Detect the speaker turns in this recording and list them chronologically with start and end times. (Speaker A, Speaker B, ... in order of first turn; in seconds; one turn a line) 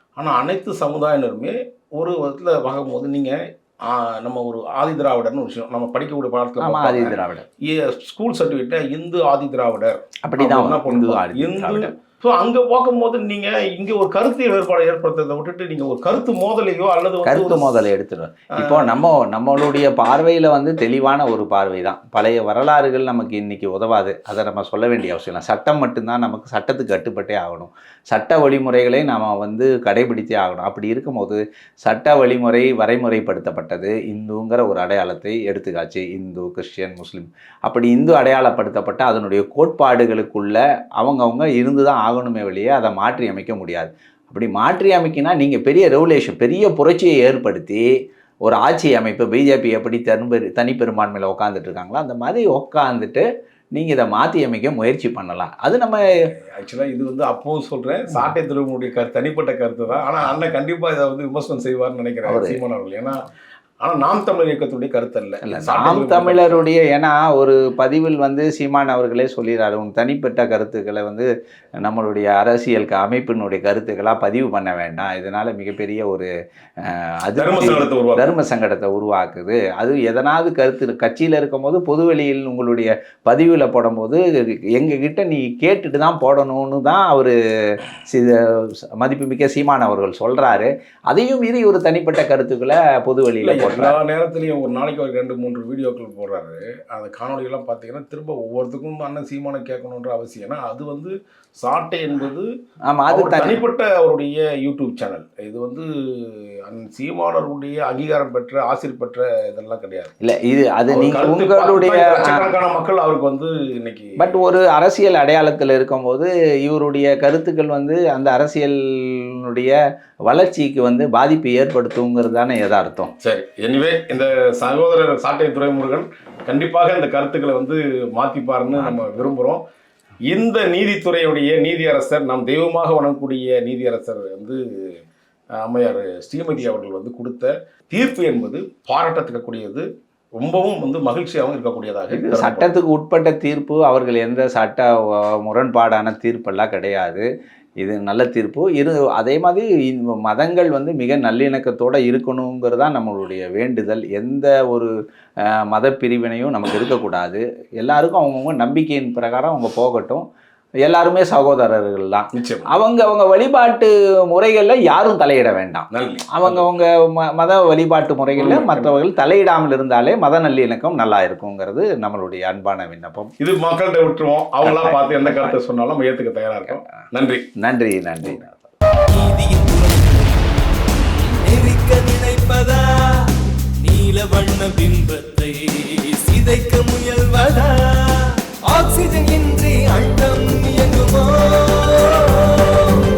Speaker A: 0.2-17.7
Speaker B: 6.6-7.5
Speaker B: 10.2-11.9
Speaker B: 17.2-47.9
Speaker A: 18.5-18.9
Speaker B: 48.4-56.2
Speaker A: 56.2-63.2
Speaker B: 62.2-62.6
Speaker A: 63.8-66.6
Speaker B: 65.4-71.3
Speaker B: 71.8-76.3
Speaker B: 76.8-93.9
Speaker A: 77.3-78.3
Speaker A: 93.4-102.5
Speaker B: 102.9-103.6
Speaker A: 103.1-110.1
Speaker B: 110.2-112.4
Speaker A: 110.9-114.2
Speaker B: 114.2-119.7
Speaker B: 120.3-123.1
Speaker A: 123.2-129.6
Speaker B: 128.8-129.2
Speaker A: 130.3-135.0
Speaker A: 135.6-139.8
Speaker A: 140.4-142.8
Speaker B: 142.1-147.2
Speaker B: 147.8-160.2
Speaker B: 160.8-173.3
Speaker A: 162.3-162.7
Speaker A: 165.9-166.7
Speaker A: 168.3-169.0
Speaker A: 173.4-177.4
Speaker B: 174.6-175.5
Speaker B: 177.6-178.7
Speaker C: 179.1-180.6
Speaker C: 181.2-182.9
Speaker C: 183.8-192.6
Speaker B: 183.9-185.3
Speaker B: 186.5-187.2
Speaker B: 188.8-190.4